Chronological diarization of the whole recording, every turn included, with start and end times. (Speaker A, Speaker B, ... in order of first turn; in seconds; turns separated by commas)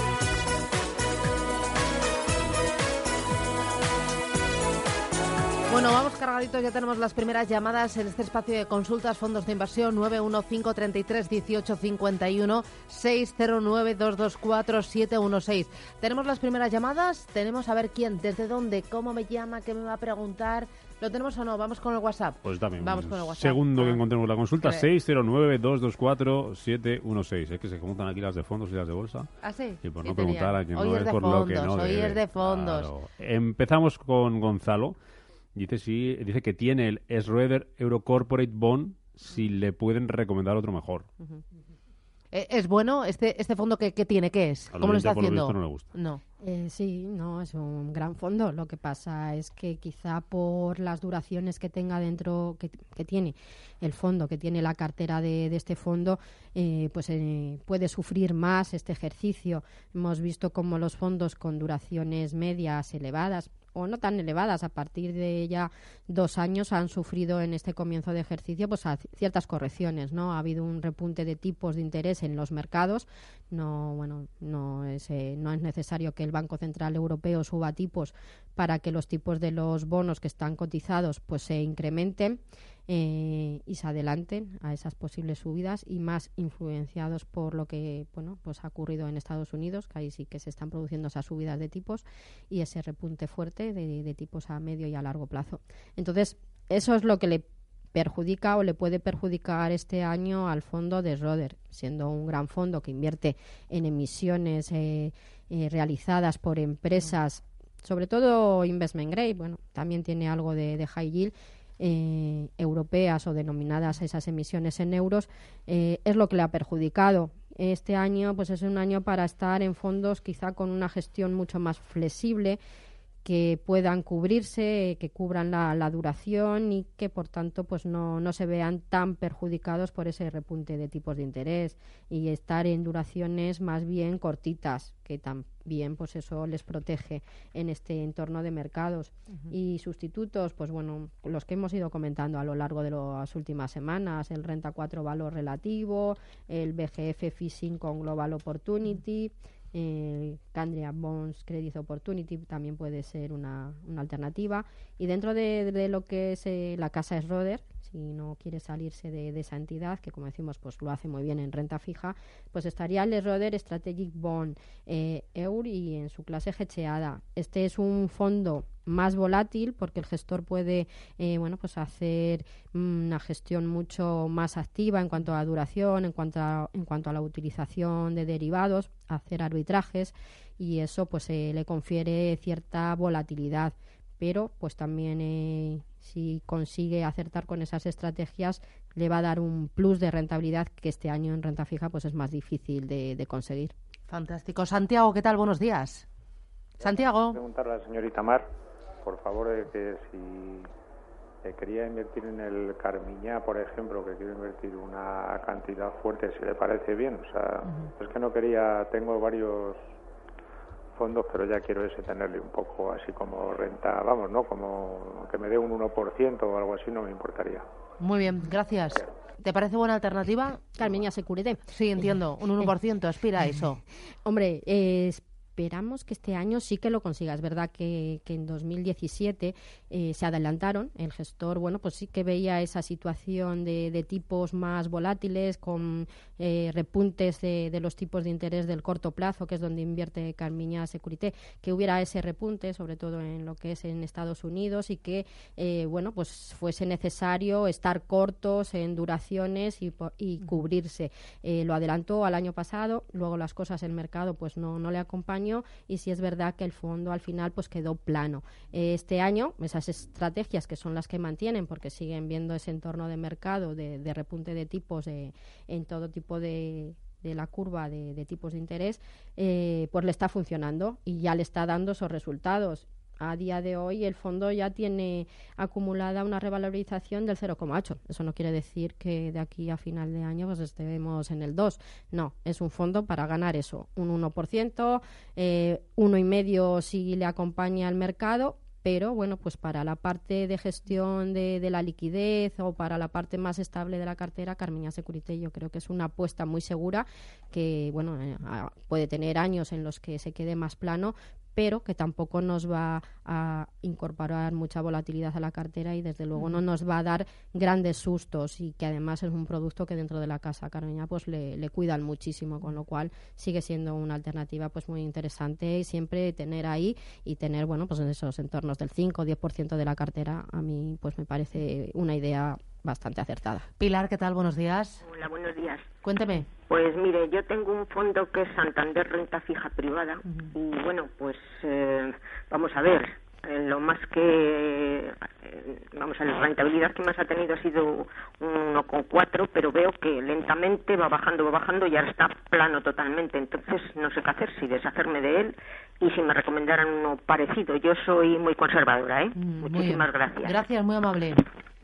Speaker A: 5.7-24.0, Speaker B: 22.4-29.3, Speaker A: 24.6-24.9, Speaker A: 29.4-32.9, Speaker B: 29.8-35.0, Speaker B: 35.5-41.1, Speaker A: 42.3-46.2, Speaker B: 44.7-45.9, Speaker C: 46.4-122.6, Speaker C: 123.2-193.7, Speaker A: 194.1-196.1, Speaker A: 196.8-197.4, Speaker D: 196.8-198.5, Speaker D: 199.0-200.7, Speaker D: 201.4-209.8, Speaker A: 207.6-207.9, Speaker D: 210.9-217.7, Speaker A: 218.0-220.7, Speaker C: 220.8-221.6, Speaker A: 221.7-223.8, Speaker C: 224.2-323.7, Speaker A: 323.8-325.0, Speaker E: 325.0-325.9, Speaker A: 326.0-326.5, Speaker E: 326.6-350.6, Speaker A: 330.2-330.5, Speaker A: 349.4-351.4